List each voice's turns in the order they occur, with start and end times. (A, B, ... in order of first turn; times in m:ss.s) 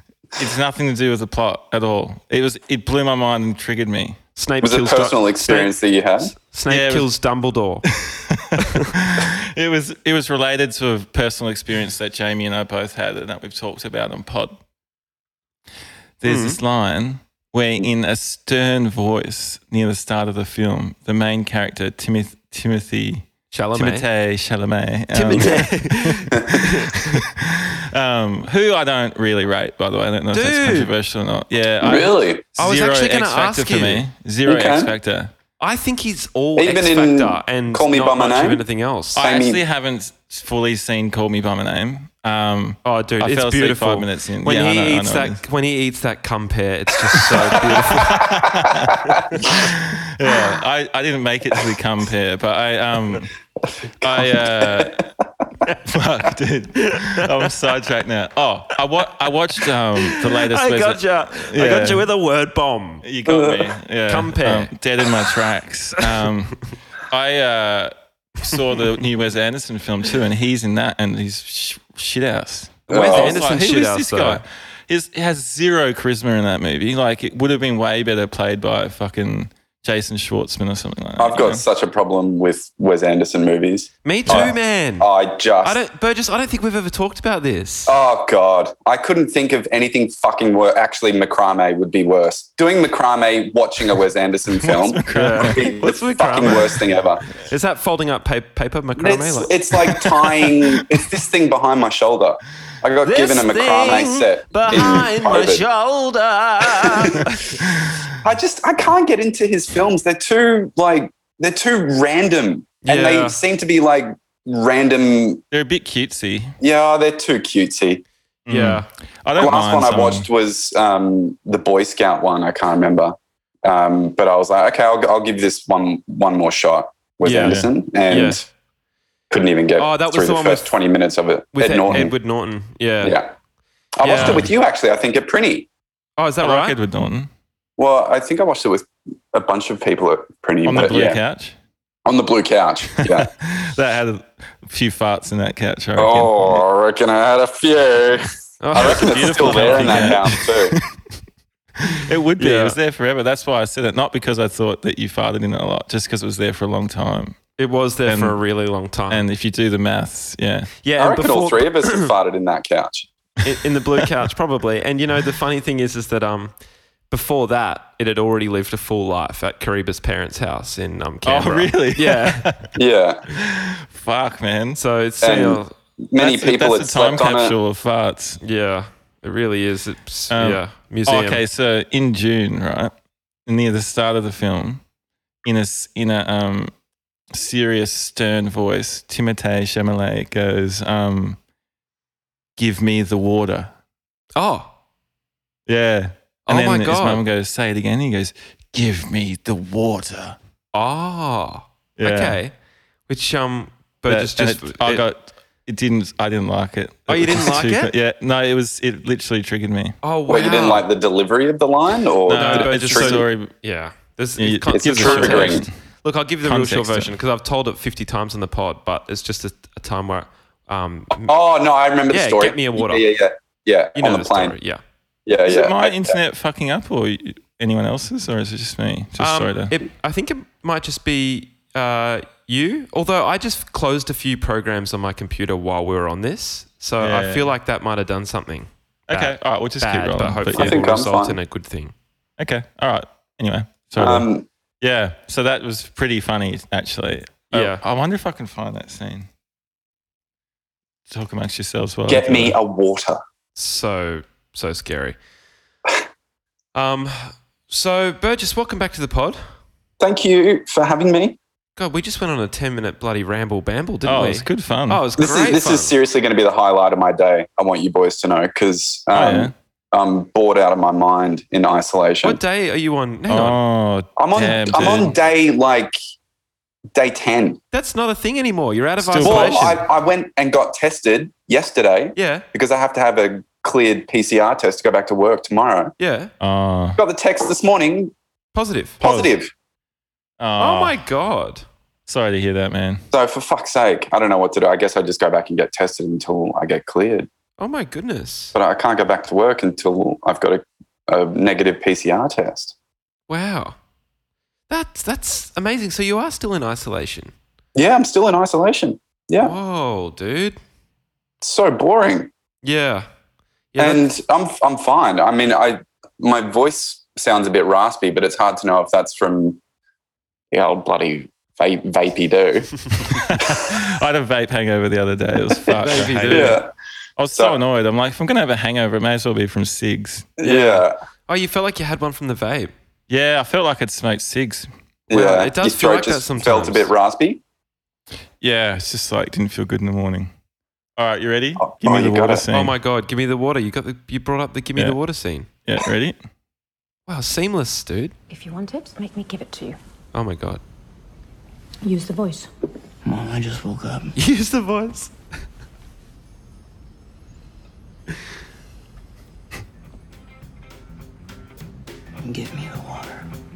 0:00.4-0:04.2 A
0:04.4-0:07.8 B
0:04.6-0:06.3 C
0:06.7-0:07.1 A
0:08.1-0:14.5 A
0:16.2-0:26.4 A
0:16.2-0:16.6 B
0:23.5-0:24.1 B
0:25.1-0:27.2 B
0:27.1-0:35.3 A
0:30.3-0:30.9 B
0:31.8-0:32.4 C
0:32.6-0:34.0 B
0:34.5-0:34.9 C
0:35.6-0:39.2 B
0:36.6-0:38.6 C
0:39.1-0:45.4 A
0:39.2-0:39.6 C
0:42.8-0:48.2 B
0:47.9-0:53.3 A
0:53.9-0:54.9 C
0:54.0-0:55.0 A
0:55.8-1:02.1 A
0:59.9-1:03.0 B
1:03.0-1:21.6 A
1:03.2-1:03.7 C
1:04.1-1:04.7 B
1:12.9-1:13.4 C
1:12.9-1:14.4 B
1:21.2-1:25.8 C
1:24.0-1:25.1 B
1:25.6-1:28.0 B
1:27.9-1:37.2 C
1:34.6-1:35.8 A
1:35.1-1:36.7 B
1:36.3-1:37.0 A
1:37.4-1:39.6 B
1:39.0-1:45.6 C
1:39.9-1:40.2 A
1:43.0-1:47.6 B
1:44.7-1:44.9 A
1:46.8-1:47.2 C
1:48.2-1:55.4 C
1:52.8-1:53.4 B
1:55.5-1:56.5 A
1:56.6-1:58.0 C
1:58.5-2:00.3 A
1:58.5-1:58.9 B
1:59.4-2:03.1 C
2:03.6-2:08.4 C
2:07.2-2:08.4 B
2:07.4-2:07.7 A
2:09.3-2:12.1 C
2:09.8-2:10.7 B
2:11.5-2:13.2 B
2:13.0-2:13.3 C
2:14.0-2:15.7 C
2:14.0-2:14.5 B
2:14.0-2:14.5 A
2:16.2-2:16.8 B
2:16.4-2:17.3 A
2:17.8-2:21.2 C
2:20.6-2:21.5 A
2:22.0-2:23.3 C
2:23.1-2:26.6 A
2:26.0-2:30.8 C
2:28.6-2:30.2 B
2:28.7-2:30.8 A
2:31.9-2:37.4 A
2:32.4-2:32.8 B
2:37.6-2:39.3 B
2:38.0-2:38.4 A
2:39.1-2:40.7 A
2:40.8-2:42.1 B
2:41.0-2:43.1 C
2:43.4-2:46.5 B
2:47.1-2:52.4 B
2:51.2-2:52.7 A
2:52.8-2:53.2 C
2:53.3-2:54.8 A
2:54.8-2:55.7 B
2:55.2-2:57.6 C
2:56.2-2:58.4 A
2:58.4-3:01.4 B
3:00.3-3:02.9 A
3:03.4-3:04.8 A
3:05.4-3:06.7 A
3:07.3-3:11.4 A
3:12.6-3:13.7 A
3:14.4-3:14.7 B
3:15.7-3:20.4 A
3:16.5-3:17.2 B
3:20.7-3:22.5 B
3:22.0-3:22.4 A
3:23.1-3:25.0 B
3:24.1-3:30.0 A
3:27.1-3:27.9 B
3:30.0-3:30.9 B
3:30.3-3:33.2 C
3:32.2-3:33.5 A
3:32.4-3:41.4 B
3:34.4-3:35.7 A
3:34.7-3:35.7 C
3:36.4-3:37.2 A
3:41.2-3:44.6 C
3:42.1-3:43.1 B
3:43.9-3:44.8 B
3:45.2-3:46.2 C
3:45.5-3:49.7 A
3:49.2-4:01.9 B
3:57.0-3:57.5 A
3:59.1-4:00.8 A
4:00.5-4:01.4 C
4:02.4-4:04.2 A
4:04.0-4:04.5 C
4:04.8-4:09.3 A
4:07.5-4:07.8 B
4:11.1-4:12.6 A
4:12.1-4:13.2 C
4:13.5-4:15.2 B
4:16.7-4:19.4 B
4:20.0-4:21.4 C
4:21.8-4:25.9 B
4:24.0-4:25.0 A
4:25.2-4:32.4 C
4:29.1-4:29.5 A
4:32.2-4:33.6 B
4:33.3-4:35.2 A
4:34.2-4:36.0 C
4:36.9-4:37.6 C
4:37.7-4:39.7 B
4:39.0-4:39.8 A
4:39.2-4:45.9 C
4:42.2-4:42.4 B
4:46.0-4:46.3 B
4:46.4-4:47.0 A
4:47.0-4:48.1 C
4:48.5-4:49.0 B
4:49.0-4:49.5 C
4:49.0-4:49.3 A
4:50.4-4:51.0 A
4:50.6-4:51.6 B
4:52.1-4:53.0 A
4:53.1-4:57.3 C
4:57.6-4:58.6 B
4:58.5-5:02.7 C
5:03.3-5:03.8 B
5:04.7-5:07.3 B
5:07.7-5:09.5 C
5:09.4-5:10.6 B
5:11.4-5:12.3 C
5:12.6-5:13.0 B
5:13.7-5:14.0 B
5:13.8-5:19.6 C
5:20.5-5:22.7 C
5:23.0-5:26.6 A
5:25.8-5:26.6 B
5:26.2-5:26.7 C
5:27.2-5:30.4 A
5:27.3-5:27.6 C
5:30.4-5:30.9 C
5:30.4-5:32.7 B
5:33.1-5:34.7 A
5:35.1-5:37.4 C
5:35.1-5:36.9 B
5:38.4-5:40.3 A
5:41.0-5:42.8 A
5:41.6-5:42.5 C
5:42.5-5:45.5 B
5:45.6-5:46.2 A
5:47.1-5:48.1 B
5:48.3-5:49.8 D
5:50.1-5:50.6 B
5:51.8-5:52.5 D
5:53.1-5:54.1 E
5:54.2-5:55.1 B
6:02.3-6:03.2 E